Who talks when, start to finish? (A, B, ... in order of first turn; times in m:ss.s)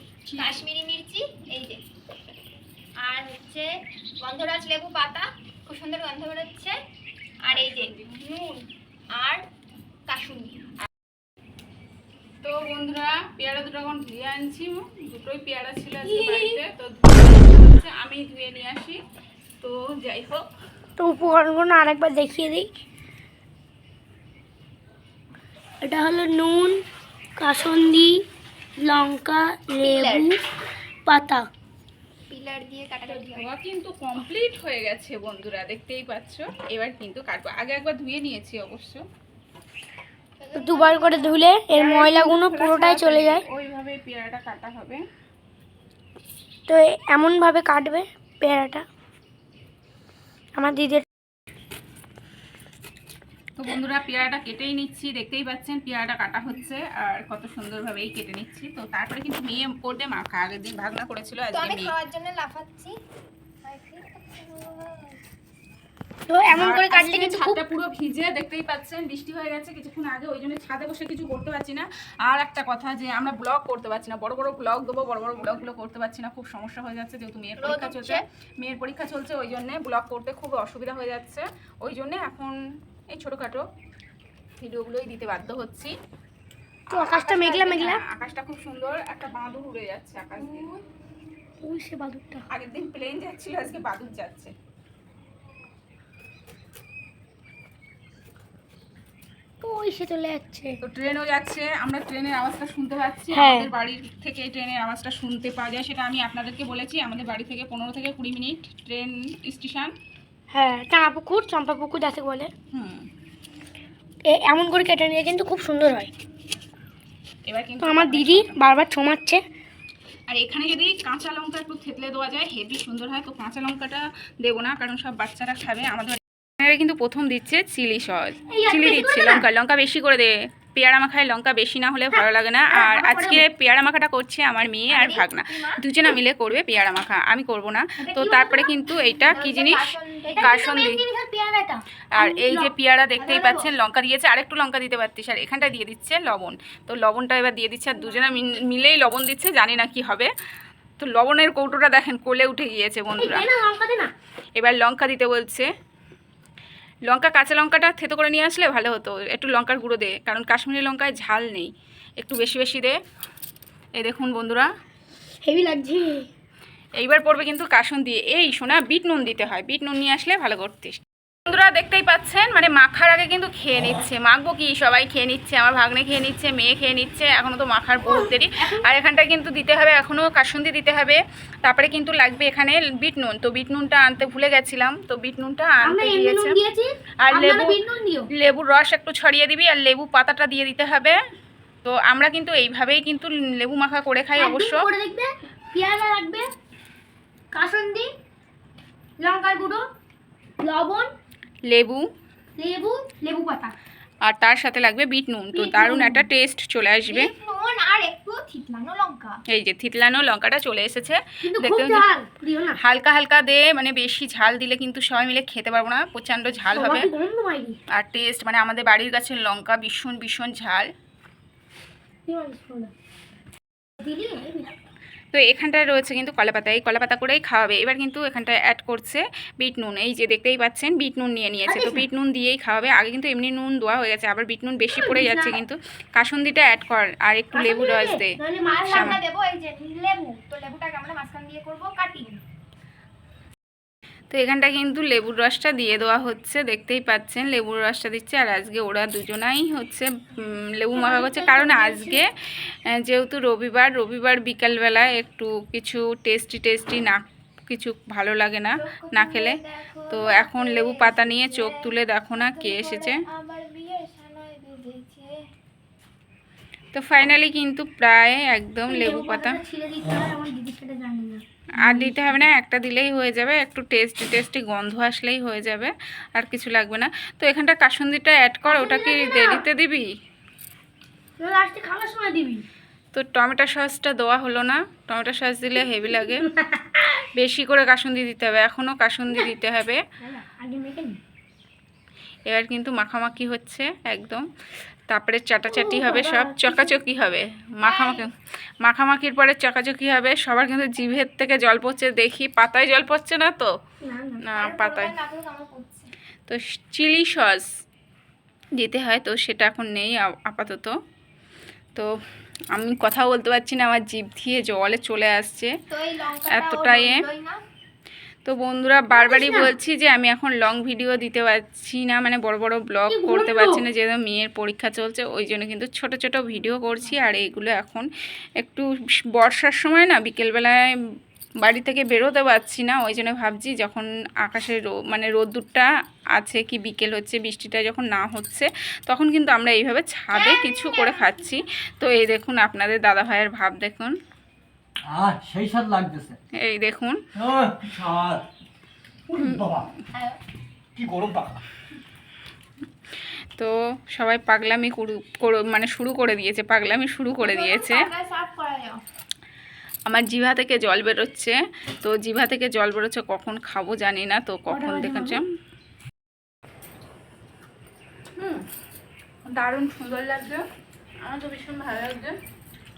0:00.3-0:00.6 A
0:00.4-0:01.8 B
0:03.0-0:06.8 B
0:07.4-0:07.9 B
0:07.5-0:08.6 A
0:09.2-0:09.4 B
0:10.1-0:10.6 B
0:12.4-0:19.0 A
0:16.0-0:16.6 C
0:19.6-0:20.4 A
0:21.0-0:22.7 C
0:25.8-0:26.8 C
0:27.4-0:28.2 C
0:28.8-0:30.4 C
0:29.8-0:30.4 B
0:31.1-0:31.5 C
0:32.3-0:33.5 B
0:33.0-0:39.0 A
0:40.4-0:41.4 B
0:40.5-0:43.4 C
0:41.7-0:45.0 A
0:46.7-0:48.8 C
0:50.6-0:51.1 C
0:53.6-1:01.9 A
1:01.5-1:03.0 B
1:03.6-1:05.2 B
1:06.3-1:07.7 C
1:06.5-1:22.6 A
1:17.6-1:18.2 B
1:23.1-1:23.6 A
1:24.6-1:25.9 A
1:26.9-1:30.8 A
1:26.9-1:28.0 C
1:31.6-1:32.4 C
1:32.5-1:34.5 A
1:39.6-1:40.8 C
1:40.8-1:49.9 A
1:43.3-1:43.7 C
1:50.5-1:52.5 C
1:52.7-1:53.1 A
1:54.2-1:56.1 C
1:57.5-1:58.6 A
1:57.8-1:59.4 C
2:00.3-2:21.0 A
2:08.5-2:09.5 C
2:12.1-2:13.4 C
2:14.9-2:15.8 B
2:18.1-2:20.6 B
2:18.1-2:18.6 C
2:20.3-2:22.7 C
2:22.2-2:30.3 A
2:23.2-2:23.7 B
2:31.0-2:33.5 A
2:33.2-2:34.1 C
2:34.6-2:35.7 A
2:37.1-2:43.0 A
2:44.0-2:44.7 A
2:45.4-2:46.3 C
2:47.0-3:06.6 A
2:58.0-2:58.9 C
3:05.8-3:08.3 C
3:07.2-3:07.8 A
3:08.3-3:11.2 A
3:11.8-3:14.9 A
3:14.4-3:16.5 C
3:17.5-3:18.1 C
3:19.2-3:19.8 C
3:20.6-3:21.1 C
3:21.7-3:22.1 A
3:22.6-3:23.7 C
3:24.2-3:27.3 A
3:25.5-3:26.3 C
3:27.1-3:29.4 B
3:29.5-3:32.1 A
3:31.4-3:32.8 C
3:32.8-3:37.1 A
3:36.7-3:37.8 C
3:37.9-3:40.9 A
3:42.3-3:42.9 C
3:44.0-3:44.8 C
3:45.3-3:58.3 A
3:51.7-3:52.0 C
3:54.9-3:55.6 C
3:57.5-3:59.2 C
3:58.6-4:02.4 B
3:58.9-3:59.2 A
4:04.3-4:12.3 A
4:10.9-4:12.2 C
4:12.9-4:19.6 A
4:18.8-4:25.3 B
4:20.1-4:23.2 A
4:26.9-4:29.6 A
4:28.9-4:32.4 C
4:31.8-4:40.1 A
4:38.6-4:39.6 C
4:41.4-4:42.6 C
4:43.1-4:46.5 A
4:46.2-4:47.3 C
4:47.4-4:50.0 A
4:50.2-4:51.2 C
4:52.5-4:54.4 A
4:55.1-4:58.3 A
4:55.7-4:57.0 C
4:57.8-4:58.3 B
4:58.8-5:03.7 A
5:04.0-5:04.4 C
5:04.4-5:05.2 A
5:04.6-5:06.1 B
5:06.5-5:07.7 A
5:08.8-5:10.9 A
5:12.7-5:15.7 A
5:15.9-5:17.6 B
5:16.5-5:17.2 A
5:18.4-5:28.1 A
5:19.1-5:19.7 C
5:23.1-5:23.8 C
5:28.6-5:30.8 A
5:31.6-5:44.2 A
5:40.3-5:41.6 B
5:45.1-5:46.4 D
5:46.6-5:47.2 A
5:47.4-5:48.4 D
5:49.3-5:49.8 A
5:49.3-5:49.9 D
5:51.0-5:51.6 D
5:53.6-5:58.1 A
5:57.4-5:59.0 B
6:00.1-6:05.4 A
6:04.7-6:05.4 C
6:08.4-6:08.6 A
6:09.5-6:10.6 A
6:11.2-6:12.4 A